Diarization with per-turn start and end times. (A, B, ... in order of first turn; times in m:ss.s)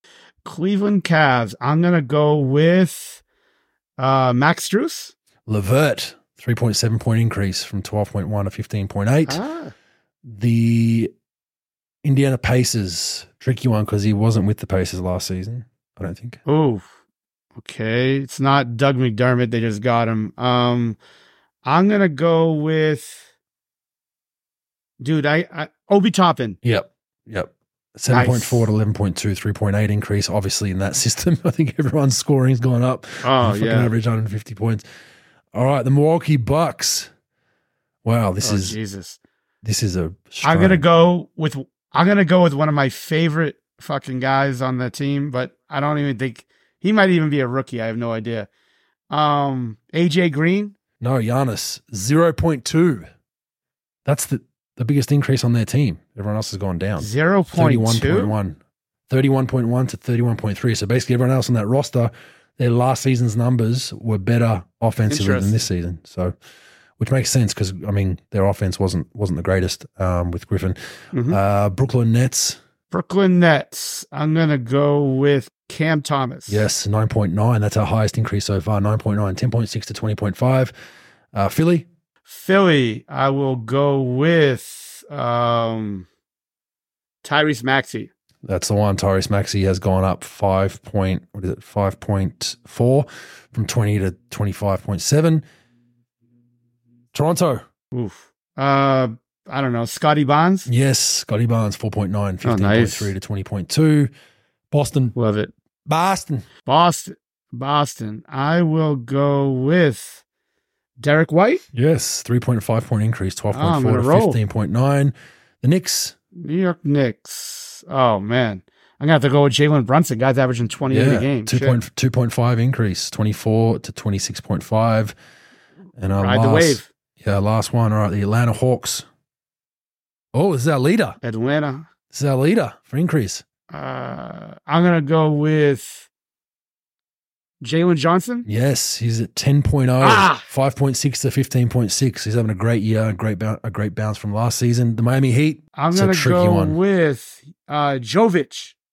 0:00.4-0:03.2 A
0:04.0-0:05.1 A
0:05.5-0:09.4 B
0:09.3-0:09.7 A
0:10.2-0:11.1 B
0:12.0-0:16.4 B
0:16.5-0:16.9 A
0:17.6-0:21.0 A
0:21.6-0:23.2 A
0:25.0-0:26.6 A
0:26.6-0:34.8 B
0:28.1-0:28.7 A
0:33.2-0:33.9 A
0:35.5-0:37.1 B
0:38.0-0:38.8 B
0:38.4-0:39.2 A
0:39.6-0:40.8 B
0:40.4-0:48.5 A
0:49.1-0:50.7 A
0:51.0-0:53.1 B
0:54.1-0:58.6 B
0:57.0-0:58.3 A
0:59.1-1:06.3 B
1:05.1-1:05.6 A
1:07.0-1:10.8 B
1:11.1-1:11.4 A
1:11.3-1:12.6 B
1:12.9-1:16.7 A
1:16.5-1:20.7 B
1:21.3-1:21.9 B
1:22.3-1:26.1 A
1:27.2-1:28.1 A
1:28.5-1:35.4 B
1:37.1-1:37.7 B
1:37.9-1:40.7 A
1:40.7-1:44.1 B
1:42.4-1:43.1 A
1:44.7-1:45.2 B
1:45.2-1:45.5 A
1:45.9-1:46.5 B
1:46.7-1:50.2 A
1:51.0-1:51.6 A
1:51.7-1:56.2 B
1:53.5-1:54.4 A
1:56.4-2:01.8 A
2:00.9-2:05.2 B
2:06.0-2:09.1 B
2:06.2-2:06.9 A
2:10.3-2:11.2 B
2:11.2-2:11.9 A
2:12.1-2:13.4 B
2:13.7-2:16.1 A
2:17.6-2:18.5 A
2:18.4-2:26.8 B
2:20.0-2:20.4 A
2:25.8-2:28.8 A